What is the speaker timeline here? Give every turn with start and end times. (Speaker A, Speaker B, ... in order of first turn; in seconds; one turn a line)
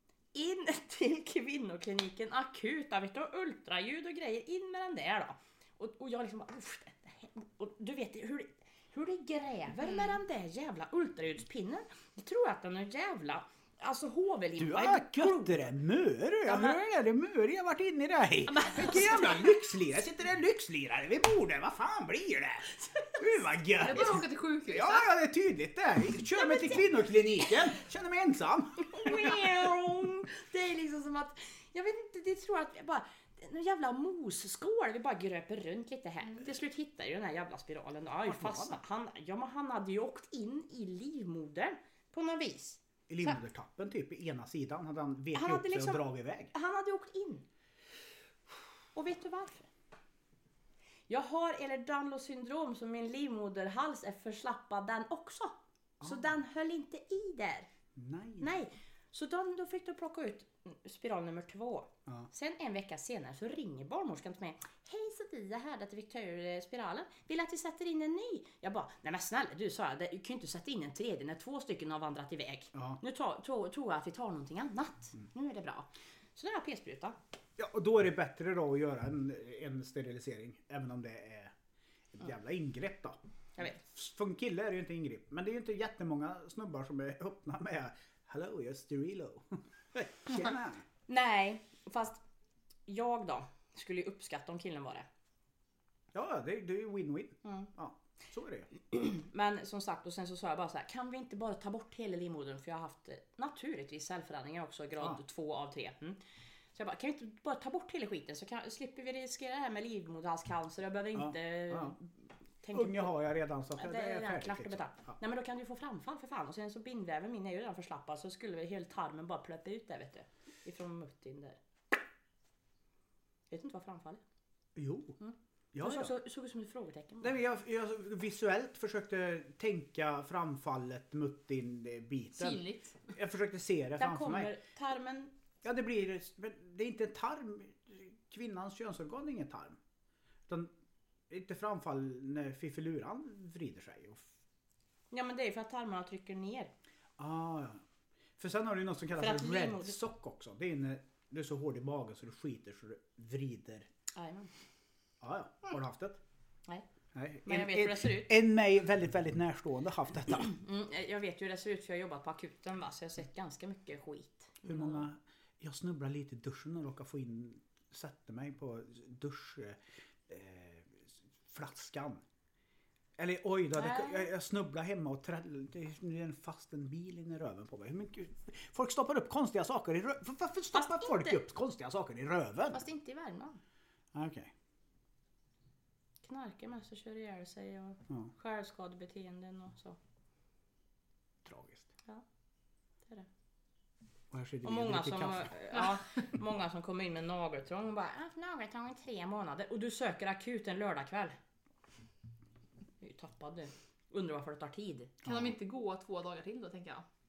Speaker A: 0.3-15.7
Speaker B: 14.6-29.6
Speaker A: 16.4-16.8
Speaker A: 18.5-19.5
Speaker C: 23.8-25.1
Speaker A: 28.9-43.4
Speaker B: 38.2-38.8
Speaker B: 43.1-46.5
Speaker A: 45.3-47.5
Speaker A: 48.9-49.7
Speaker A: 51.1-57.7
Speaker B: 56.0-56.2
Speaker B: 58.0-58.5
Speaker A: 58.4-77.2
Speaker B: 72.7-73.0
Speaker B: 77.6-81.5
Speaker B: 82.1-83.2
Speaker B: 83.8-90.8
Speaker A: 91.1-92.2
Speaker A: 92.9-95.1
Speaker B: 96.1-98.7
Speaker A: 98.9-106.2
Speaker A: 106.7-113.2
Speaker B: 111.1-112.0
Speaker B: 112.7-115.1
Speaker A: 113.7-121.6
Speaker A: 123.5-124.2
Speaker B: 124.8-125.2
Speaker A: 125.2-127.3
Speaker B: 125.7-126.1
Speaker B: 127.2-134.5
Speaker C: 132.3-133.0
Speaker A: 134.0-135.3
Speaker B: 135.6-139.8
Speaker B: 141.3-144.3
Speaker A: 145.1-146.7
Speaker B: 147.2-147.8
Speaker B: 148.4-153.9
Speaker A: 149.2-150.0
Speaker A: 154.1-154.5
Speaker B: 155.2-156.2
Speaker B: 157.1-160.5
Speaker A: 157.4-158.3
Speaker A: 160.5-165.1
Speaker B: 164.7-172.2
Speaker B: 173.2-182.8
Speaker A: 173.8-174.3
Speaker A: 180.7-181.4
Speaker A: 182.7-183.6
Speaker B: 184.1-184.5
Speaker A: 186.2-190.0
Speaker B: 191.4-191.9
Speaker B: 194.3-195.6
Speaker A: 194.6-201.3
Speaker A: 203.0-205.1
Speaker C: 205.2-207.0